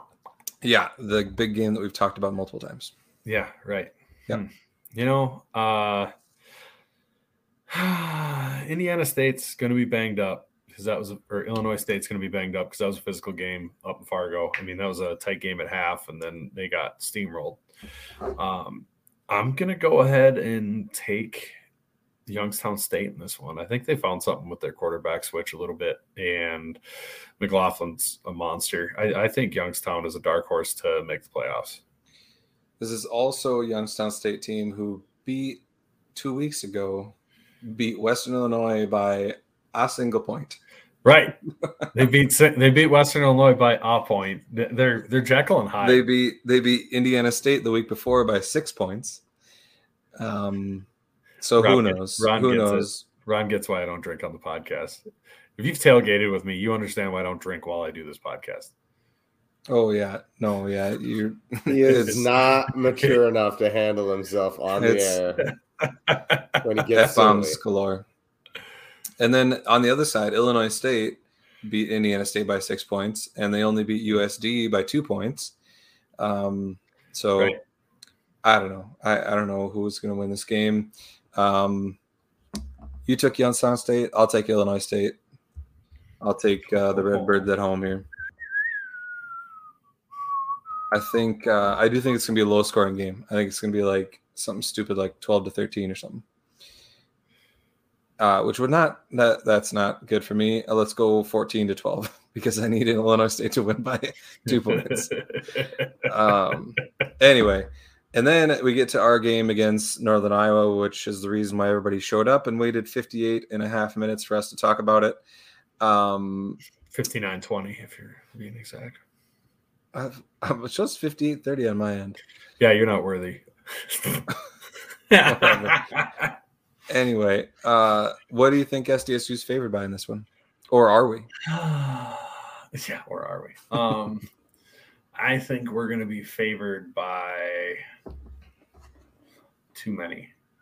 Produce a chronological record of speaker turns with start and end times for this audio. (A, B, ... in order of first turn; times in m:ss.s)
0:00.6-0:02.9 A
0:03.3-0:06.1 B
0:07.7-0:17.6 B
0:18.4-0:21.6 B
0:22.3-0:26.8 B
0:27.4-0:31.8 B
0:32.8-0:35.6 A
0:36.2-0:40.6 A
0:41.0-0:41.4 B
0:41.9-0:46.0 B
0:45.8-0:49.2 A
0:50.2-0:50.9 A
0:51.4-0:53.0 A
0:51.6-0:55.0 B
0:55.6-0:58.7 B
0:59.7-1:02.3 A
1:01.7-1:05.4 C
1:02.9-1:03.2 B
1:04.8-1:05.2 A
1:05.5-1:06.6 B
1:06.6-1:07.6 C
1:06.9-1:08.0 A
1:09.2-1:15.5 A
1:16.2-1:17.6 A
1:18.4-1:22.0 A
1:23.1-1:25.2 A
1:26.2-1:28.1 A
1:30.9-1:36.2 A
1:38.2-1:45.1 A
1:44.5-1:46.1 B
1:46.0-1:55.2 A
1:55.8-1:56.6 A
1:56.9-1:59.0 B
1:59.9-2:02.2 A
2:02.6-2:04.3 B
2:05.1-2:06.3 B
2:05.2-2:05.8 A
2:06.9-2:11.3 A
2:11.4-2:14.2 B
2:15.2-2:17.8 B
2:19.7-2:20.3 B